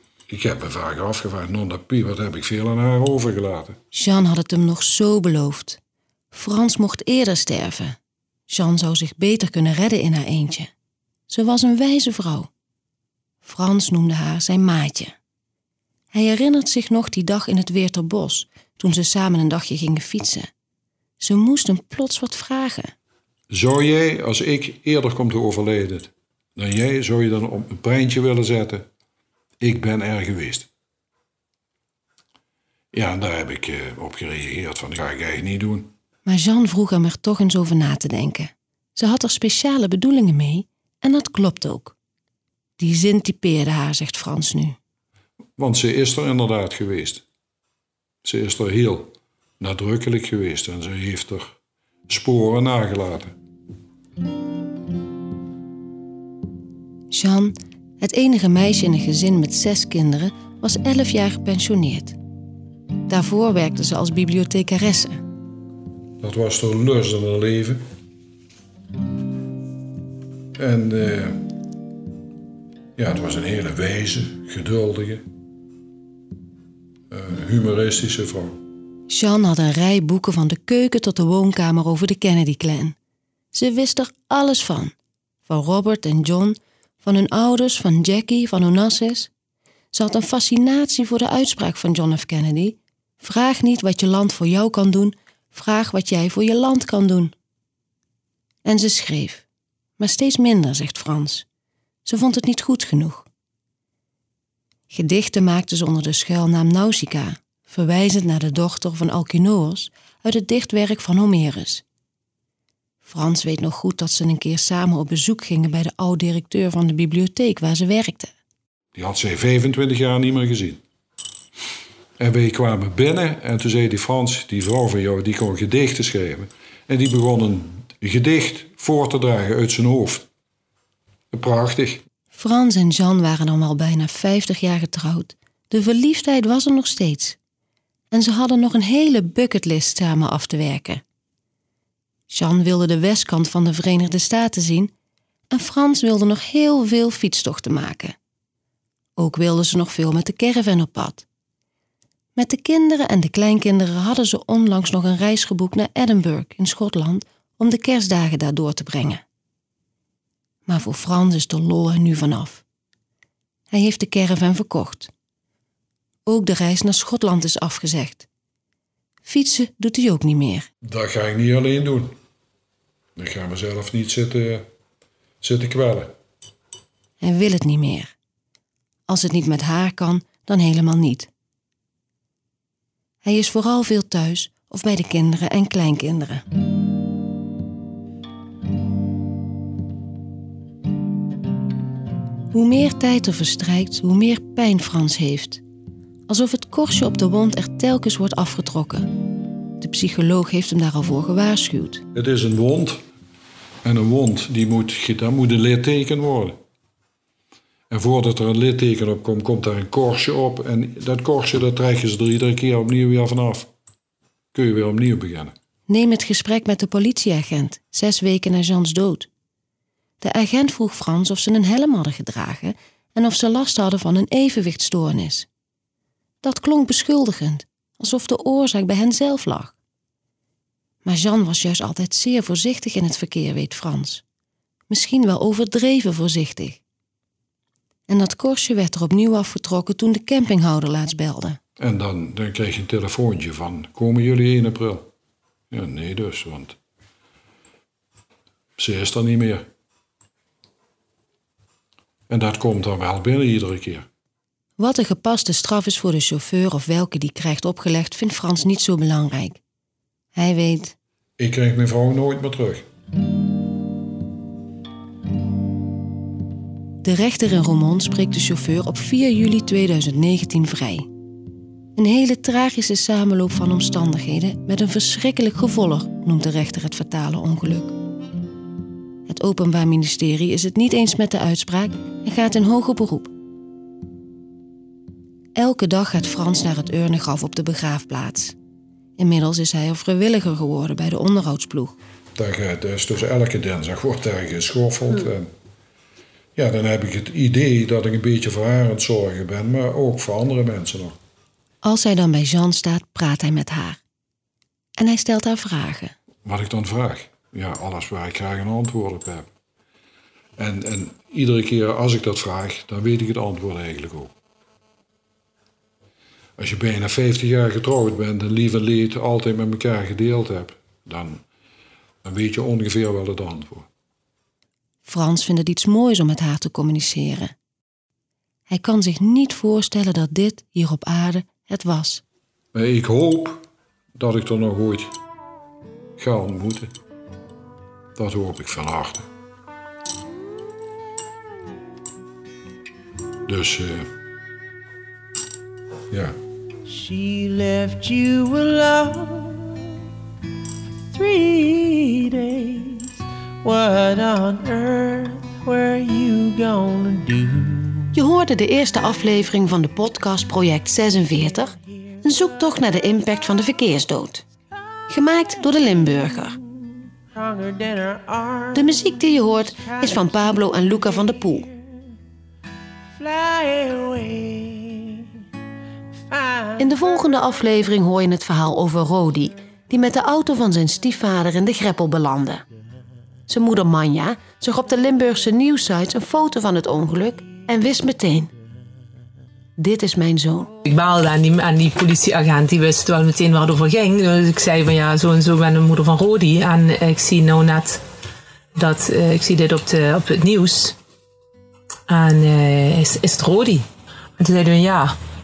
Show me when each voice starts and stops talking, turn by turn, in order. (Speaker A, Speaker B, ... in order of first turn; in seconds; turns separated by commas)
Speaker A: 0.3-3.8, Speaker B: 3.9-5.8, Speaker B: 6.3-8.0, Speaker B: 8.5-10.7, Speaker B: 11.3-12.5, Speaker B: 13.4-15.2, Speaker B: 16.1-20.5, Speaker B: 21.2-22.9, Speaker A: 23.5-28.9, Speaker A: 29.6-30.7, Speaker A: 32.9-35.9, Speaker B: 36.2-42.0, Speaker B: 42.8-44.8, Speaker A: 45.6-47.2, Speaker A: 48.2-51.6, Speaker A: 52.1-53.3, Speaker B: 57.1-62.2, Speaker B: 63.1-65.2, Speaker A: 66.2-67.8, Speaker A: 70.6-71.4, Speaker A: 73.0-75.2, Speaker A: 77.1-78.6, Speaker B: 79.1-83.0, Speaker B: 83.5-84.9, Speaker B: 85.5-89.3, Speaker B: 89.9-97.3, Speaker B: 98.6-99.5, Speaker B: 100.0-101.5, Speaker B: 102.0-103.3, Speaker B: 104.9-111.8, Speaker B: 113.0-118.3, Speaker A: 118.9-120.8, Speaker A: 122.2-130.3, Speaker A: 131.3-132.0, Speaker B: 132.3-137.4, Speaker B: 138.1-141.0, Speaker B: 142.3-144.9, Speaker B: 145.5-148.2, Speaker B: 149.2-151.2, Speaker B: 152.4-159.2, Speaker B: 160.7-162.6, Speaker B: 163.7-165.1, Speaker B: 166.3-168.3, Speaker B: 169.2-170.7, Speaker A: 170.8-172.2, Speaker A: 173.2-174.7, Speaker A: 175.4-176.1, Speaker B: 177.2-178.1, Speaker B: 179.1-181.3, Speaker B: 183.2-186.4, Speaker B: 192.5-195.6, Speaker B: 196.3-199.1, Speaker B: 199.8-202.0, Speaker A: 202.1-203.0, Speaker A: 203.8-206.6, Speaker A: 207.9-213.7, Speaker A: 214.5-215.5, Speaker B: 215.9-219.3, Speaker B: 220.2-225.5, Speaker B: 226.4-229.8, Speaker B: 231.1-234.2, Speaker B: 234.9-236.8, Speaker B: 238.1-241.6, Speaker A: 241.8-245.1, Speaker A: 245.7-246.8, Speaker A: 248.8-249.7, Speaker A: 252.3-254.1, Speaker B: 254.8-259.6, Speaker B: 260.3-260.9, Speaker A: 261.4-262.9, Speaker B: 267.0-271.1, Speaker B: 271.9-277.9, Speaker B: 279.3-283.3, Speaker B: 285.6-288.6, Speaker B: 289.2-292.0, Speaker A: 292.4-295.5, Speaker A: 296.6-301.2, Speaker B: 301.8-304.0, Speaker B: 305.0-306.1, Speaker A: 306.4-309.5, Speaker A: 310.6-314.3, Speaker A: 316.6-321.4, Speaker A: 322.2-323.9, Speaker B: 325.1-327.5, Speaker B: 328.7-332.2, Speaker A: 332.7-335.1, Speaker A: 336.2-336.9, Speaker A: 338.1-339.3, Speaker A: 343.5-344.1, Speaker A: 346.1-346.4, Speaker C: 346.9-349.9, Speaker C: 351.1-353.1, Speaker C: 353.6-358.0, Speaker B: 358.1-364.4, Speaker B: 365.1-366.6, Speaker C: 367.4-368.7, Speaker B: 368.7-371.7, Speaker C: 373.2-375.3, Speaker B: 376.8-382.6, Speaker B: 383.5-388.5, Speaker B: 389.8-390.7, Speaker D: 390.9-398.0, Speaker D: 398.8-401.0, Speaker D: 402.1-403.9, Speaker D: 404.4-405.1